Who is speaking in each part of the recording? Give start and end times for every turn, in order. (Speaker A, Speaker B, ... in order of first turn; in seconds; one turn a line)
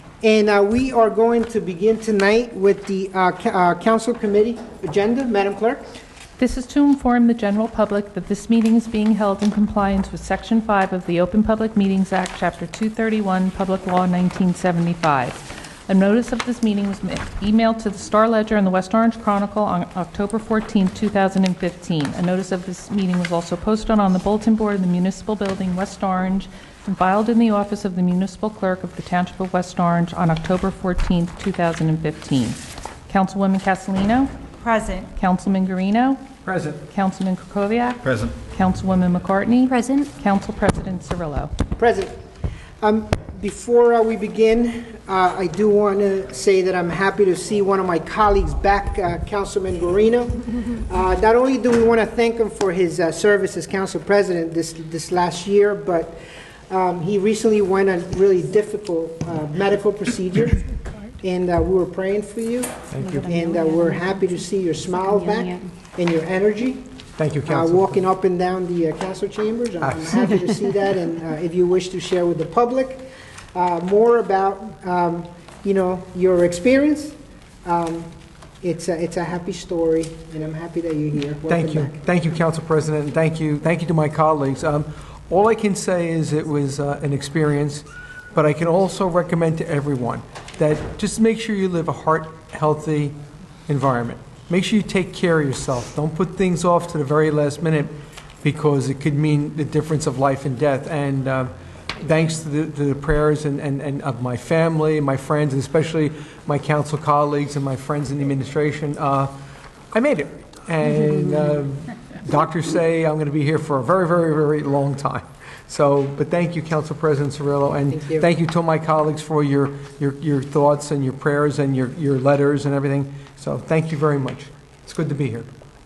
Speaker A: 0.2-5.9
Speaker B: 6.4-34.3
Speaker C: 34.6-35.1
Speaker B: 35.1-36.2
Speaker D: 36.5-36.8
Speaker B: 36.9-41.5
Speaker D: 38.0-38.3
Speaker C: 39.7-40.1
Speaker A: 41.8-42.1
Speaker A: 42.8-60.6
Speaker A: 61.2-66.9
Speaker D: 62.9-63.2
Speaker C: 63.0-64.4
Speaker C: 65.0-65.7
Speaker D: 67.2-68.0
Speaker A: 67.4-78.1
Speaker D: 69.8-70.2
Speaker A: 78.6-82.0
Speaker D: 81.5-93.2
Speaker D: 93.7-109.3
Speaker D: 109.9-125.5
Speaker A: 117.9-118.3